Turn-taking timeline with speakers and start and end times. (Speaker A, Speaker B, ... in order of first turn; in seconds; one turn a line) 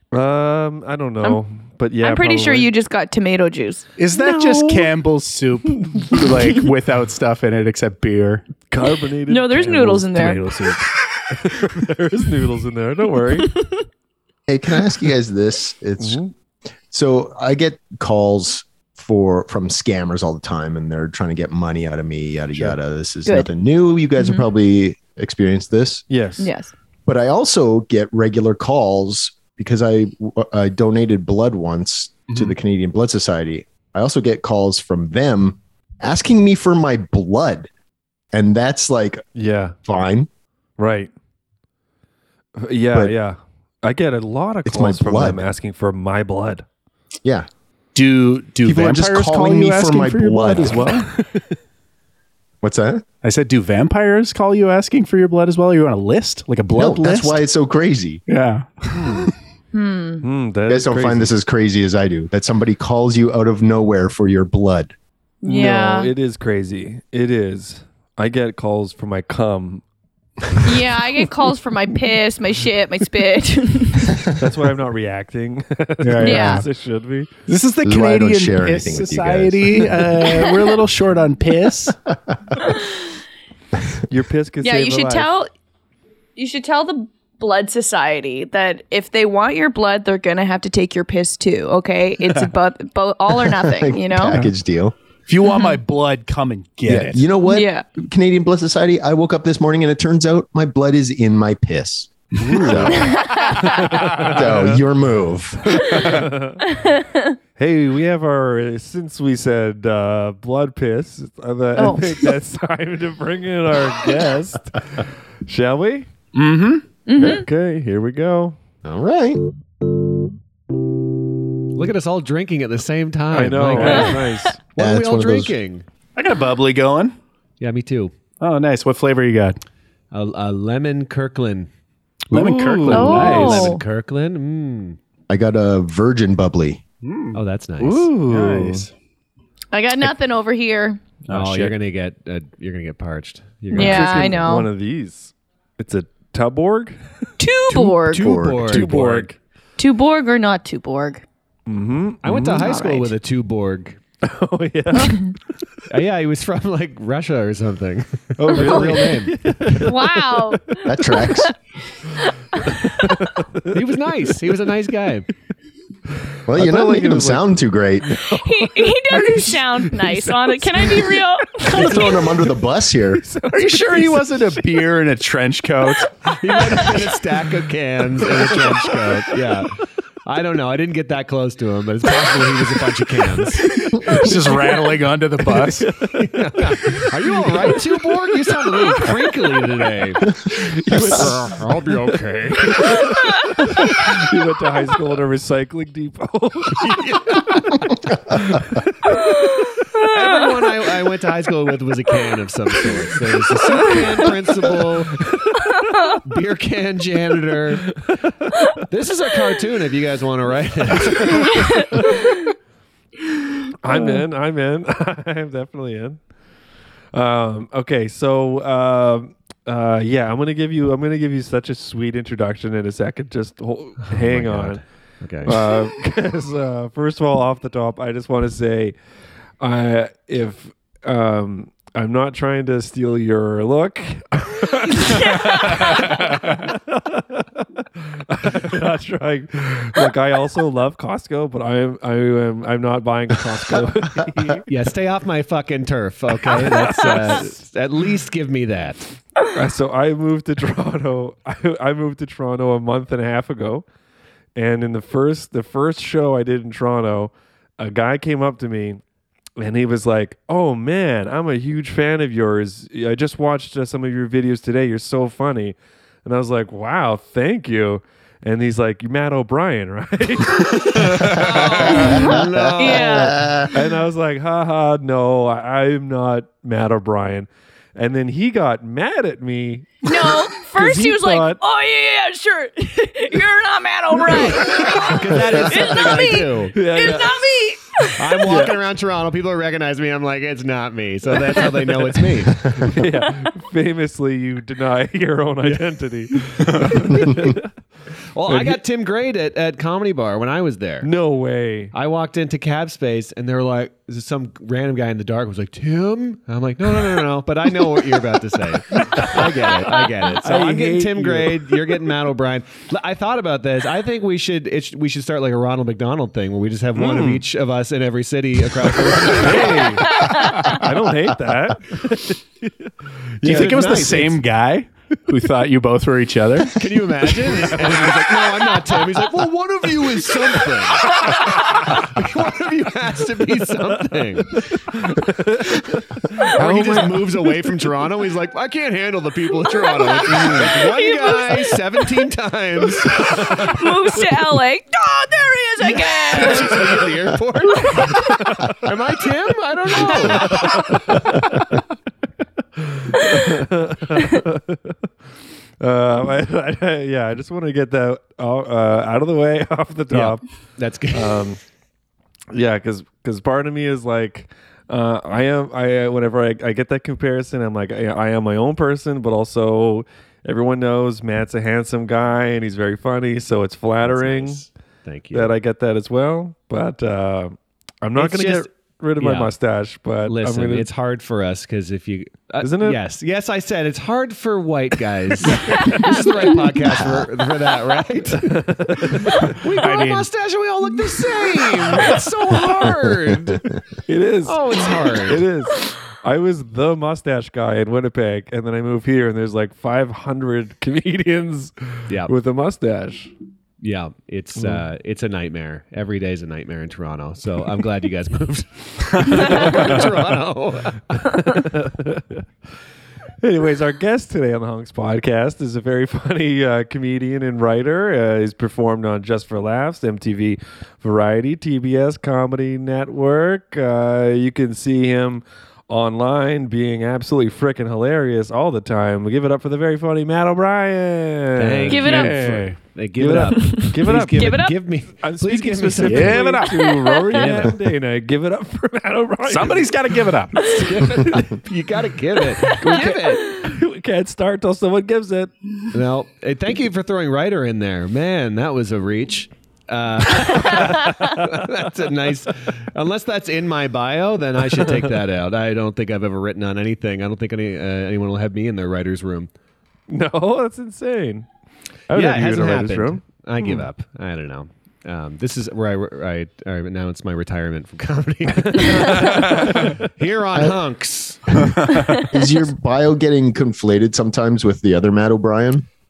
Speaker A: 0.1-2.7
Speaker B: 2.0-4.3
Speaker C: 4.0-8.5
Speaker A: 4.4-4.9
Speaker A: 5.8-6.1
Speaker A: 8.7-13.6
Speaker B: 9.3-10.5
Speaker B: 13.4-13.8
Speaker D: 14.5-16.2
Speaker A: 16.0-16.3
Speaker D: 16.9-26.1
Speaker B: 24.2-24.4
Speaker A: 26.1-26.5
Speaker B: 26.4-26.7
Speaker D: 27.1-37.7
Speaker D: 38.3-39.2
Speaker A: 39.4-39.8
Speaker D: 39.9-40.3
Speaker A: 40.8-41.1
Speaker A: 42.6-46.6
Speaker D: 44.7-45.5
Speaker C: 48.0-51.1
Speaker D: 48.6-51.0
Speaker A: 51.1-51.5
Speaker D: 52.6-53.0
Speaker C: 53.2-57.4
Speaker D: 56.7-58.2
Speaker C: 58.3-59.3
Speaker A: 58.9-59.3
Speaker B: 59.7-60.3
Speaker A: 60.2-61.3
Speaker D: 60.7-64.9
Speaker B: 65.4-66.1
Speaker A: 65.5-69.8
Speaker A: 70.5-71.1
Speaker B: 70.6-74.2
Speaker A: 74.4-77.3
Speaker C: 76.0-76.7
Speaker B: 76.2-76.7
Speaker C: 77.5-82.0
Speaker D: 77.8-80.0
Speaker A: 84.1-85.4
Speaker B: 84.6-85.5
Speaker B: 86.4-94.4
Speaker D: 93.5-95.0
Speaker C: 95.3-97.3
Speaker D: 96.9-103.2
Speaker B: 97.5-97.8
Speaker C: 102.4-102.9
Speaker A: 102.4-104.8
Speaker B: 103.0-103.7
Speaker D: 104.1-106.1
Speaker A: 105.7-106.8
Speaker B: 106.7-107.3
Speaker A: 107.6-116.1
Speaker B: 111.8-112.3
Speaker C: 116.3-116.8
Speaker B: 117.1-117.5
Speaker A: 117.2-118.6
Speaker D: 118.8-119.4
Speaker E: 121.7-125.8
Speaker A: 123.3-124.6
Speaker B: 123.8-124.2
Speaker D: 124.8-125.5
Speaker C: 126.2-127.2
Speaker E: 127.6-128.2
Speaker C: 128.4-129.6
Speaker E: 130.1-131.7
Speaker A: 132.3-133.5
Speaker C: 132.3-133.8
Speaker B: 132.9-133.8
Speaker E: 133.1-135.0
Speaker D: 135.3-136.8
Speaker C: 137.0-137.4
Speaker E: 137.3-138.1
Speaker A: 137.8-138.9
Speaker C: 138.2-138.9
Speaker B: 139.7-141.0
Speaker C: 141.3-141.8
Speaker E: 141.3-144.4
Speaker B: 143.7-144.7
Speaker A: 143.7-147.0
Speaker B: 147.4-148.3
Speaker E: 147.8-149.3
Speaker D: 148.1-149.0
Speaker A: 148.6-149.4
Speaker B: 149.8-151.2
Speaker A: 151.7-152.7
Speaker E: 152.2-154.0
Speaker B: 152.6-153.1
Speaker A: 154.2-155.4
Speaker B: 155.0-155.3
Speaker E: 155.9-159.3
Speaker A: 158.4-160.6
Speaker B: 158.5-158.9
Speaker B: 159.8-161.5
Speaker D: 160.9-161.5
Speaker B: 162.2-163.3
Speaker A: 162.6-164.0
Speaker E: 163.7-165.3
Speaker D: 166.5-168.1
Speaker A: 166.5-172.0
Speaker B: 168.4-172.2
Speaker D: 171.7-173.2
Speaker A: 173.2-174.8
Speaker C: 173.5-176.1
Speaker E: 176.3-183.7
Speaker A: 178.3-179.6
Speaker A: 183.7-184.8
Speaker C: 184.1-185.9
Speaker A: 185.5-189.4
Speaker E: 186.2-190.3
Speaker A: 190.5-199.7
Speaker D: 190.9-191.3
Speaker E: 190.9-193.0
Speaker B: 192.9-193.5
Speaker E: 196.8-197.6
Speaker B: 199.1-200.3
Speaker E: 200.1-205.2
Speaker A: 203.9-206.1
Speaker B: 205.8-206.2
Speaker E: 206.2-207.9
Speaker E: 208.9-211.6
Speaker A: 211.0-212.3
Speaker B: 211.5-212.4
Speaker A: 213.8-216.2
Speaker A: 217.1-224.8
Speaker E: 224.1-225.6
Speaker A: 225.4-228.9
Speaker A: 229.6-244.7
Speaker B: 235.1-236.1
Speaker E: 244.7-249.1
Speaker A: 246.4-247.6
Speaker A: 249.5-253.8
Speaker A: 254.6-259.0
Speaker A: 259.6-272.4
Speaker E: 271.2-273.4
Speaker B: 271.7-273.5
Speaker D: 272.4-273.7
Speaker A: 273.7-281.6
Speaker B: 280.0-288.4
Speaker A: 284.4-285.1
Speaker E: 284.6-286.8
Speaker A: 286.7-287.5
Speaker E: 288.2-292.6
Speaker A: 288.4-288.8
Speaker A: 292.8-297.7
Speaker E: 295.6-295.9
Speaker C: 296.7-297.0
Speaker E: 298.4-301.1
Speaker A: 298.5-298.8
Speaker A: 301.0-301.9
Speaker E: 301.9-320.3
Speaker A: 308.9-311.8
Speaker A: 317.0-317.4
Speaker A: 319.2-324.3
Speaker B: 320.1-320.5
Speaker C: 323.4-326.9
Speaker E: 323.4-324.4
Speaker E: 326.8-334.7
Speaker A: 327.7-328.2
Speaker A: 331.1-332.0
Speaker A: 334.5-337.6
Speaker E: 336.5-343.7
Speaker B: 339.7-342.1
Speaker A: 340.3-340.8
Speaker A: 343.1-344.2
Speaker B: 343.4-346.8
Speaker E: 345.8-351.0
Speaker B: 347.8-348.5
Speaker A: 348.0-348.9
Speaker A: 349.9-351.8
Speaker B: 350.3-350.8
Speaker A: 352.8-355.0
Speaker B: 353.2-353.5
Speaker A: 355.8-360.4
Speaker E: 360.1-361.5
Speaker A: 361.1-361.6
Speaker A: 362.5-374.6
Speaker E: 374.1-375.5
Speaker A: 375.3-380.9
Speaker E: 378.2-378.7
Speaker E: 379.2-379.5
Speaker E: 380.2-393.6
Speaker A: 382.6-383.0
Speaker A: 385.4-386.2
Speaker B: 385.7-386.2
Speaker D: 387.0-387.3
Speaker A: 388.3-389.6
Speaker C: 389.8-390.3
Speaker A: 394.1-403.3
Speaker E: 394.4-395.5
Speaker E: 402.1-402.3
Speaker E: 403.8-411.3
Speaker A: 404.6-404.9
Speaker A: 409.2-410.3
Speaker A: 411.1-412.4
Speaker A: 413.4-441.6
Speaker E: 431.6-436.7
Speaker B: 431.9-432.4
Speaker C: 432.1-432.7
Speaker B: 433.6-434.8
Speaker C: 436.0-437.0
Speaker B: 436.8-437.3
Speaker E: 437.3-437.8
Speaker C: 439.4-440.6
Speaker E: 441.0-443.6
Speaker B: 442.6-443.7
Speaker A: 442.7-445.5
Speaker E: 445.9-459.5
Speaker A: 450.4-451.9
Speaker A: 460.1-461.5
Speaker A: 462.1-463.9
Speaker E: 462.1-471.4
Speaker A: 468.7-470.1
Speaker C: 471.8-472.1
Speaker D: 472.3-475.9